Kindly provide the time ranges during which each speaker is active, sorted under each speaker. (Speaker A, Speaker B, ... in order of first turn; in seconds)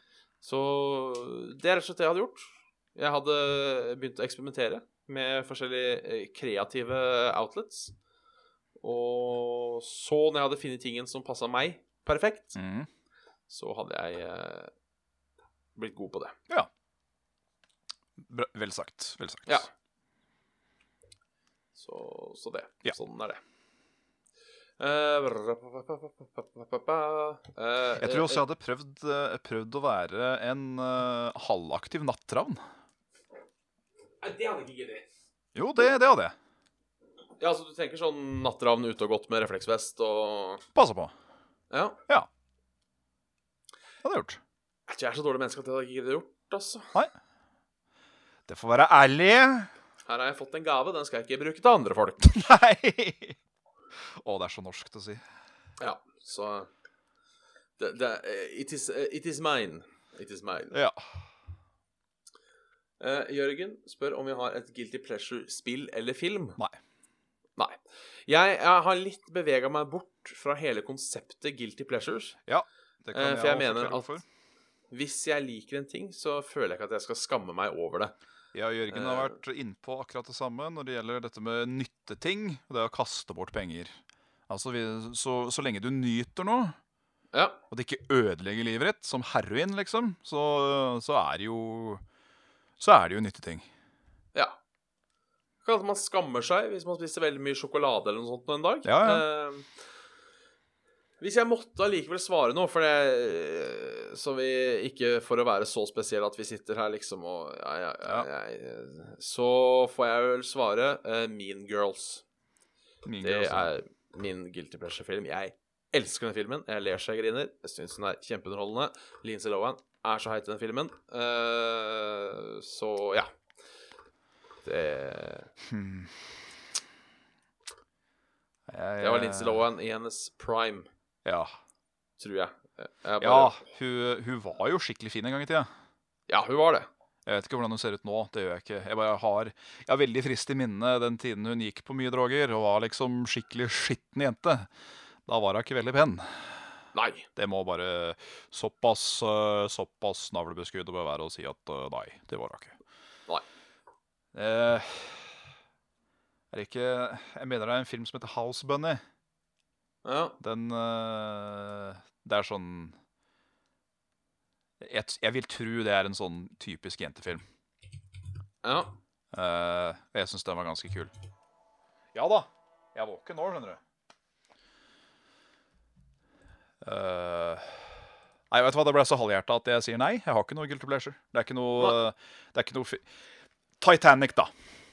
Speaker A: 0.4-7.9, 8.8-12.6, 13.5-14.7, 15.8-16.4, 21.8-23.4, 24.8-28.4, 34.2-35.0, 37.4-40.6, 41.7-42.0, 44.9-46.9, 50.0-52.4, 55.8-56.7, 57.8-60.8, 63.0-66.6, 67.6-72.4, 73.1-74.2, 74.9-78.1, 78.9-79.3, 87.3-87.6, 95.6-99.7, 101.2-112.2, 113.2-123.3, 124.6-125.5, 129.0-130.9, 132.2-133.6, 136.3-136.9, 146.9-147.3, 160.0-160.4, 168.6-169.0
Speaker B: 12.5-12.9, 18.2-19.6, 28.0-32.6, 35.5-36.3, 40.7-41.1, 44.0-44.4, 48.5-49.7, 52.2-53.4, 54.0-55.2, 60.7-61.0, 72.5-74.2, 78.5-84.0, 84.5-86.7, 87.7-92.0, 92.8-93.7, 98.8-99.2, 113.0-113.7, 125.6-126.3, 128.7-129.6, 131.2-131.5, 133.2-135.7, 137.2-144.7, 145.2-146.5, 147.3-152.8, 154.3-155.4, 156.5-159.0, 160.4-162.9, 164.8-167.4, 169.3-171.1, 172.1-173.8, 176.8-177.9, 178.5-183.1, 183.8-184.5